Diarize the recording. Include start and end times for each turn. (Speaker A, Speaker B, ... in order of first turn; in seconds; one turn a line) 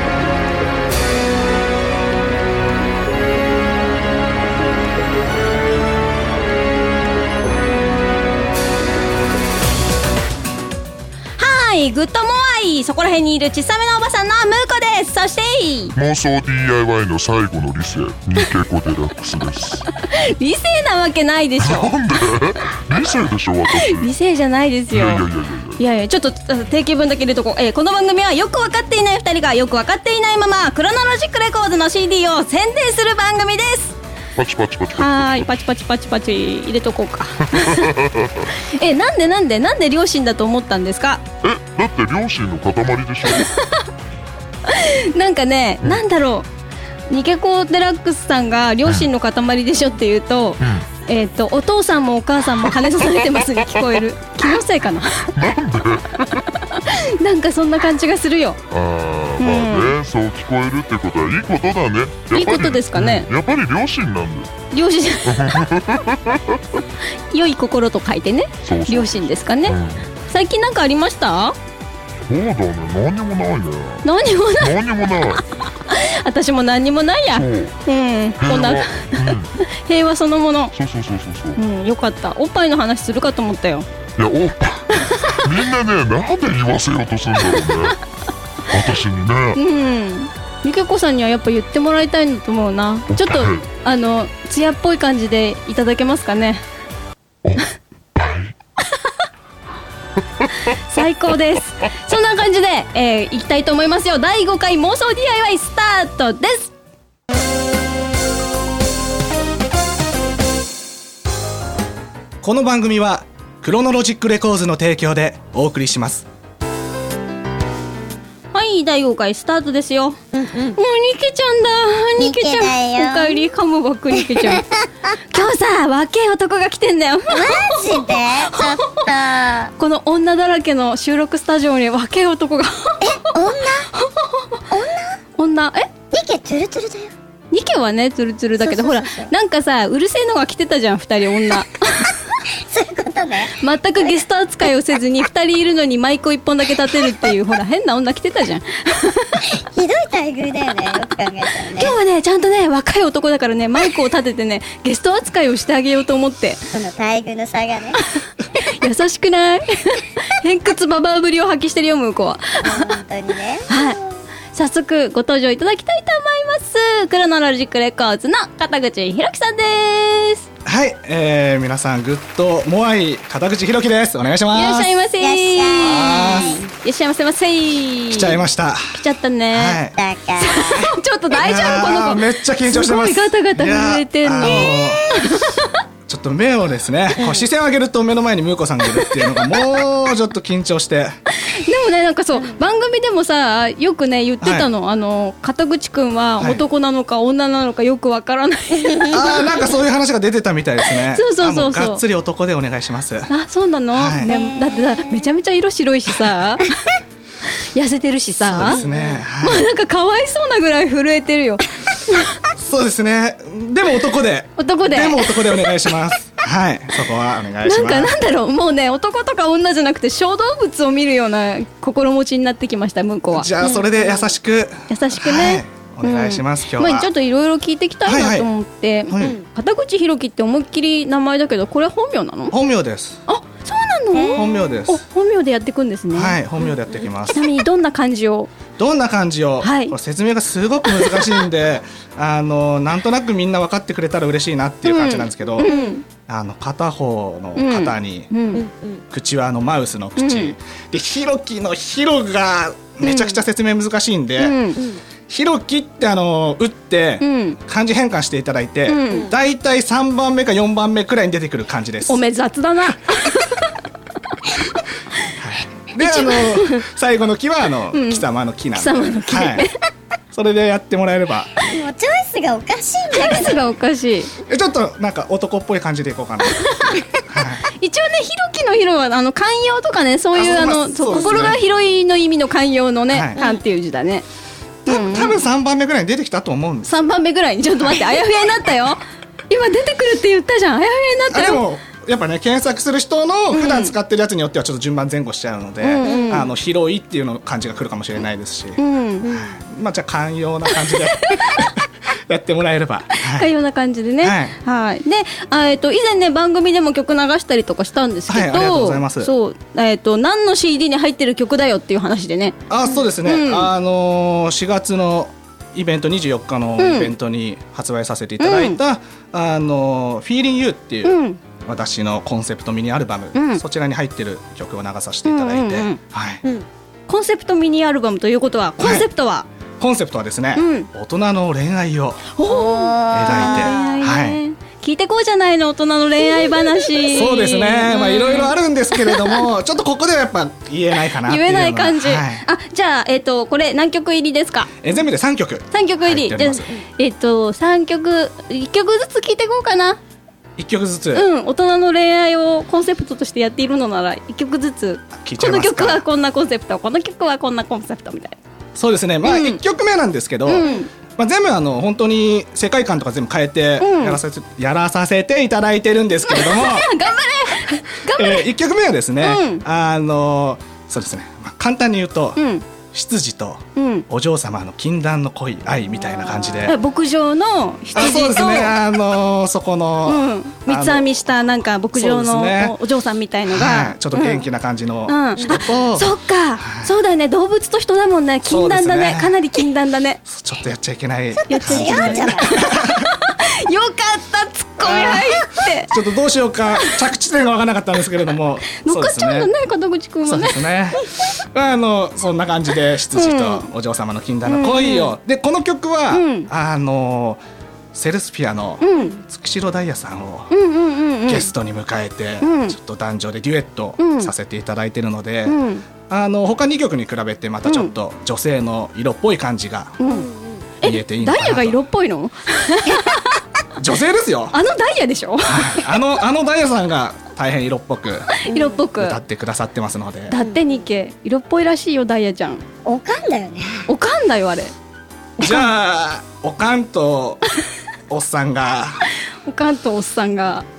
Speaker A: 11.4-15.9
Speaker B: 15.9-19.9
Speaker A: 19.9-22.0
Speaker B: 21.6-24.1
Speaker A: 23.7-34.0
Speaker B: 24.9-25.8
Speaker B: 34.4-35.2
Speaker A: 34.9-41.2
Speaker B: 37.6-38.3
Speaker B: 41.4-43.5
Speaker A: 43.3-43.9
Speaker A: 44.6-46.5
Speaker A: 47.1-55.3
Speaker B: 50.6-50.9
Speaker B: 55.3-56.3
Speaker A: 56.4-58.6
Speaker B: 58.7-64.5
Speaker A: 59.4-60.0
Speaker A: 62.3-63.3
Speaker A: 64.7-65.5
Speaker B: 65.2-66.6
Speaker A: 67.3-71.6
Speaker B: 68.6-70.1
Speaker B: 72.3-75.4
Speaker A: 74.0-74.8
Speaker A: 75.7-80.7
Speaker B: 77.3-77.8
Speaker B: 78.4-79.5
Speaker B: 80.8-81.6
Speaker A: 81.5-83.9
Speaker B: 84.2-88.0
Speaker A: 85.0-85.4
Speaker A: 87.5-87.9
Speaker B: 88.7-89.6
Speaker A: 89.5-96.6
Speaker B: 93.2-93.6
Speaker B: 97.4-98.5
Speaker A: 100.6-106.7
Speaker C: 112.4-116.3
Speaker A: 118.5-120.2
Speaker D: 120.3-120.8
Speaker A: 120.8-128.8
Speaker D: 122.2-123.4
Speaker D: 124.2-124.7
Speaker D: 127.3-129.7
Speaker A: 129.7-133.3
Speaker D: 133.0-133.9
Speaker A: 133.9-134.6
Speaker D: 134.7-135.2
Speaker A: 135.4-135.9
Speaker D: 136.1-137.1
Speaker A: 137.5-142.2
Speaker D: 138.6-139.3
Speaker D: 142.5-143.5
Speaker A: 143.6-149.5
Speaker D: 149.5-151.9
Speaker A: 151.7-156.6
Speaker D: 156.7-158.0
Speaker A: 158.2-163.0
Speaker D: 162.6-164.0
Speaker A: 163.7-164.0
Speaker A: 164.5-170.5
Speaker C: 170.7-174.9
Speaker A: 174.5-178.4
Speaker D: 175.2-176.7
Speaker C: 175.8-176.6
Speaker C: 178.1-179.0
Speaker A: 178.9-179.8
Speaker C: 179.5-180.0
Speaker D: 179.9-180.9
Speaker A: 180.4-185.7
Speaker C: 181.3-185.3
Speaker D: 184.4-184.7
Speaker C: 186.1-191.2
Speaker D: 187.2-187.5
Speaker A: 191.4-199.7
Speaker C: 194.4-194.7
Speaker D: 198.8-199.2
Speaker C: 199.1-203.3
Speaker A: 200.9-202.0
Speaker A: 203.3-206.7
Speaker C: 203.9-204.3
Speaker D: 204.3-205.3
Speaker A: 207.6-208.8
Speaker C: 208.5-209.7
Speaker D: 208.6-209.2
Speaker A: 209.4-212.4
Speaker C: 212.5-218.1
Speaker A: 214.6-215.9
Speaker A: 217.6-223.5
Speaker C: 223.3-227.1
Speaker D: 223.6-224.3
Speaker A: 224.9-232.5
Speaker C: 228.1-228.5
Speaker C: 229.1-229.4
Speaker D: 229.2-229.5
Speaker C: 232.5-233.2
Speaker A: 233.3-236.4
Speaker D: 234.1-234.5
Speaker C: 234.3-235.0
Speaker C: 236.1-237.4
Speaker D: 236.8-237.1
Speaker A: 237.3-238.5
Speaker C: 238.8-245.7
Speaker A: 239.6-239.9
Speaker A: 240.8-241.4
Speaker A: 244.8-246.0
Speaker D: 245.6-246.0
Speaker C: 246.3-248.3
Speaker A: 247.6-248.6
Speaker D: 248.5-249.0
Speaker C: 249.1-254.6
Speaker A: 250.2-250.6
Speaker A: 253.0-253.4
Speaker A: 254.4-254.8
Speaker D: 254.8-255.0
Speaker C: 255.3-262.2
Speaker A: 257.2-257.6
Speaker A: 258.9-259.3
Speaker D: 259.1-259.3
Speaker A: 262.1-263.7
Speaker A: 264.4-264.8
Speaker C: 265.4-269.7
Speaker A: 266.0-266.9
Speaker A: 267.9-269.8
Speaker C: 270.3-271.5
Speaker D: 271.6-273.7
Speaker A: 273.1-274.3
Speaker C: 274.5-277.7
Speaker A: 276.4-277.0
Speaker A: 277.7-284.3
Speaker C: 280.4-281.6
Speaker D: 281.1-281.6
Speaker C: 283.1-283.4
Speaker A: 284.9-285.4
Speaker C: 284.9-286.9
Speaker A: 286.9-291.6
Speaker C: 291.3-303.5
Speaker A: 293.5-293.9
Speaker A: 295.8-296.5
Speaker D: 296.0-296.4
Speaker A: 298.8-299.3
Speaker D: 299.2-299.6
Speaker A: 300.9-301.7
Speaker A: 303.2-313.7
Speaker C: 304.2-304.6
Speaker C: 308.3-309.3
Speaker C: 312.7-326.4
Speaker A: 316.8-317.1
Speaker A: 318.4-318.8
Speaker A: 321.0-321.4
Speaker A: 323.3-323.6
Speaker A: 325.3-326.0
Speaker A: 327.1-329.5
Speaker C: 328.8-329.1
Speaker C: 329.8-332.3
Speaker A: 330.6-330.9
Speaker A: 332.4-339.5
Speaker D: 332.5-334.0
Speaker C: 333.1-334.4
Speaker D: 336.2-337.2
Speaker C: 337.1-342.4
Speaker A: 341.1-344.7
Speaker C: 344.8-346.7
Speaker A: 345.7-350.0
Speaker C: 350.6-351.3
Speaker A: 351.1-358.4
Speaker C: 355.2-356.1
Speaker C: 358.8-366.9
Speaker A: 359.2-359.6
Speaker A: 360.5-360.9
Speaker A: 363.8-364.2
Speaker A: 366.2-368.5
Speaker C: 368.1-372.4
Speaker A: 369.2-369.6
Speaker A: 372.4-372.6
Speaker C: 372.9-376.8
Speaker A: 373.8-374.1
Speaker A: 376.6-378.8
Speaker C: 377.9-381.2
Speaker A: 380.1-384.5
Speaker C: 381.9-382.8
Speaker C: 383.5-386.9
Speaker A: 385.1-390.2
Speaker C: 388.5-389.4
Speaker C: 390.2-393.0
Speaker D: 391.4-392.8
Speaker A: 391.5-395.9
Speaker C: 394.8-399.5
Speaker A: 398.7-400.7
Speaker C: 400.2-407.4
Speaker A: 403.1-403.7
Speaker A: 404.5-405.1
Speaker A: 406.1-406.5
Speaker C: 407.9-410.5
Speaker A: 408.8-409.2
Speaker A: 410.5-411.5
Speaker C: 411.3-415.6
Speaker A: 412.4-412.8
Speaker A: 414.0-414.3
Speaker A: 415.5-415.9
Speaker C: 416.1-420.0
Speaker A: 417.6-417.9
Speaker A: 420.0-420.3
Speaker D: 420.1-420.7
Speaker C: 420.8-421.8
Speaker A: 420.8-423.4
Speaker C: 423.8-424.6
Speaker A: 424.5-425.9
Speaker C: 425.4-428.4
Speaker A: 428.4-429.2
Speaker D: 428.5-428.8
Speaker C: 429.0-430.4
Speaker A: 430.3-432.6
Speaker D: 430.3-430.9
Speaker D: 432.9-433.9
Speaker A: 433.9-434.7
Speaker A: 435.4-435.7
Speaker C: 435.4-437.4
Speaker C: 438.1-439.1
Speaker A: 439.4-440.7